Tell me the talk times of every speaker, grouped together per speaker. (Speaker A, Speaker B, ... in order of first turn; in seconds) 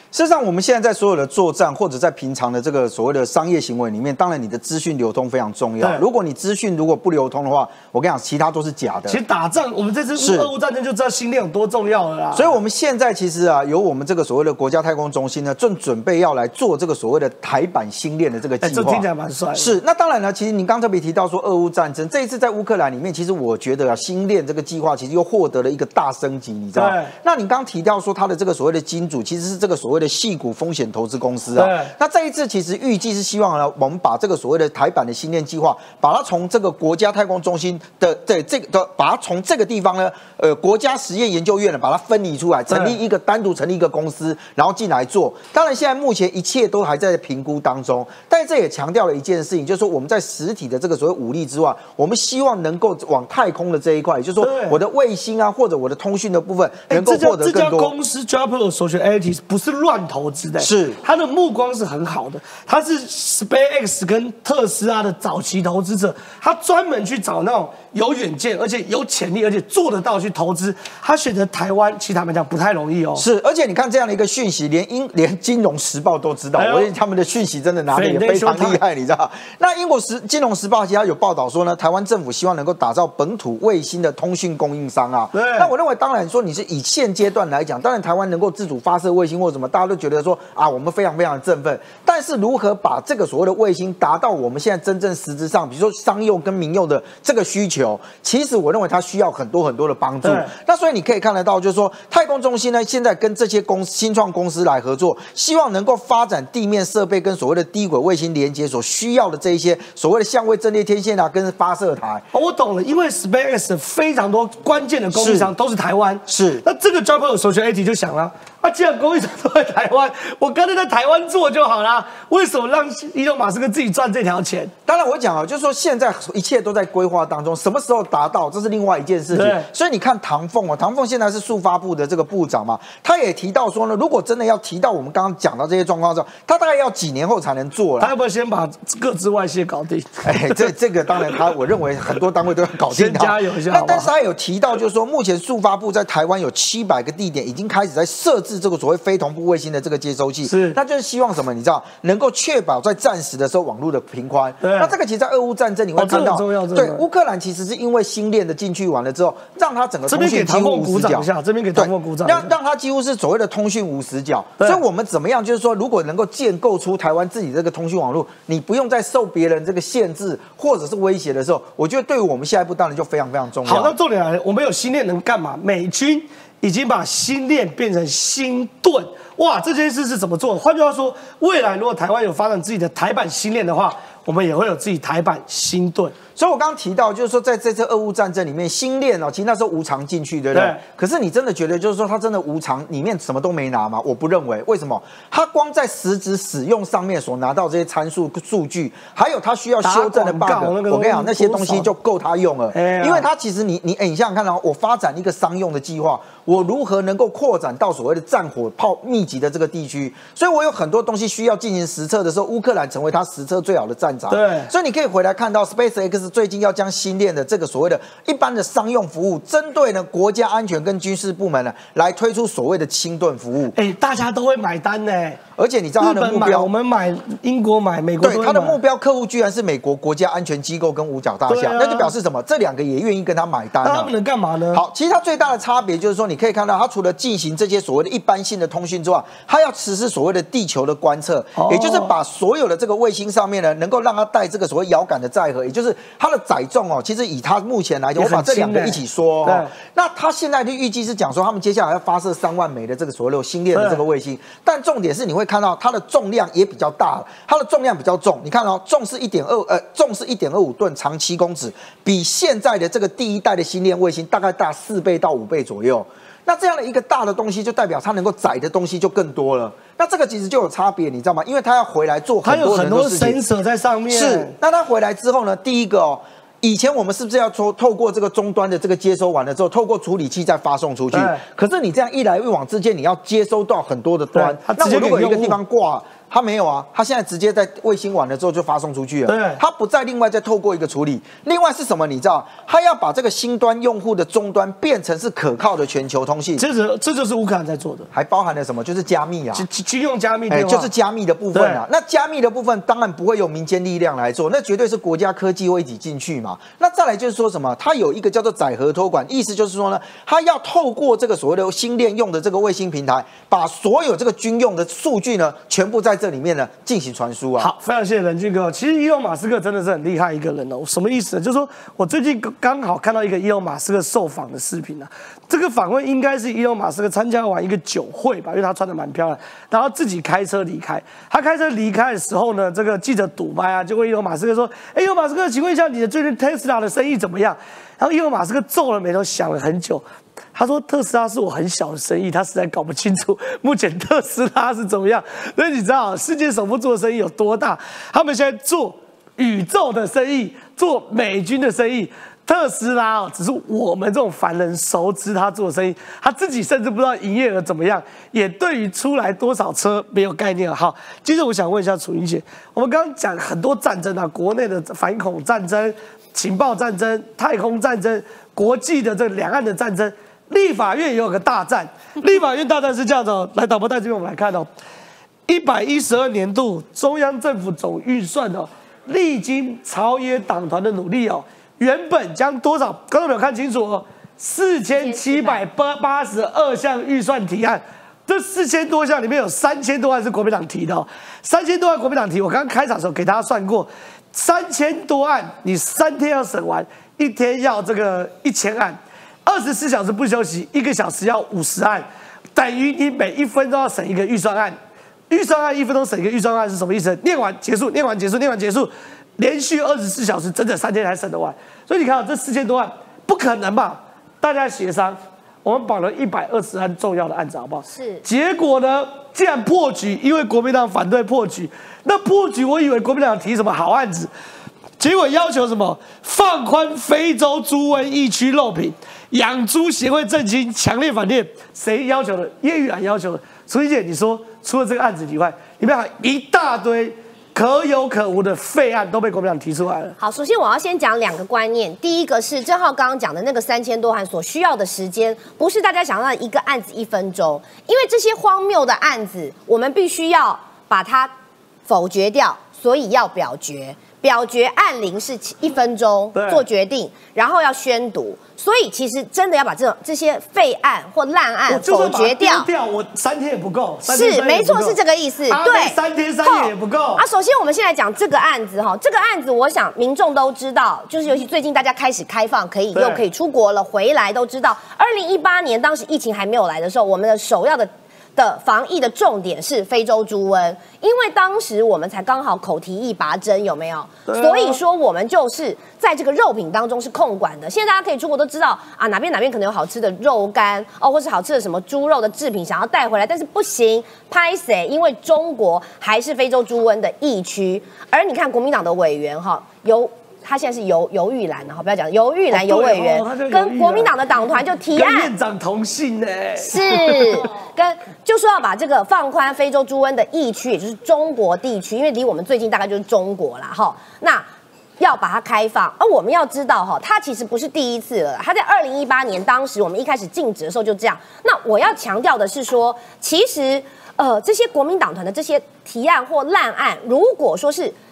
Speaker A: 0.1-9.2, 10.2-10.5, 12.3-57.9, 60.6-61.0, 73.2-112.2, 115.1-115.5, 116.3-116.6, 124.9-138.1, 140.2-173.9, 186.4-223.7, 225.6-226.7, 228.2-234.1, 234.7-273.4, 274.1-296.6, 298.1-299.6, 300.5-317.7
Speaker B: 9.1-12.5, 18.6-19.7, 26.8-27.1, 31.6-31.9, 42.7-43.0, 54.4-54.8, 56.9-73.2, 76.5-76.9, 77.9-78.8, 85.3-85.7, 100.2-100.5, 112.3-124.7, 129.3-129.7, 138.0-140.7, 142.9-144.1, 150.4-150.8, 154.6-154.9, 155.9-157.0, 160.1-162.5, 173.6-186.1, 190.5-190.8, 199.8-201.9, 202.7-203.3, 214.3-214.7, 223.7-225.4, 226.0-228.8, 231.5-232.1, 233.8-234.8, 241.5-242.1, 248.2-249.7, 253.7-254.0, 272.4-274.5, 281.1-281.4, 284.3-285.6, 289.3-289.6, 296.6-298.1, 299.5-300.9, 301.5-301.8, 317.6-374.7, 375.5-404.8, 405.3-424.3, 425.0-440.2, 456.3-456.6, 461.7-465.0, 465.5-467.2, 472.9-473.2, 484.3-484.8, 502.5-504.1, 504.9-507.5
Speaker C: 384.9-385.5, 417.9-418.2, 440.2-451.3, 451.9-462.7, 464.1-505.3, 506.6-514.4, 515.0-527.9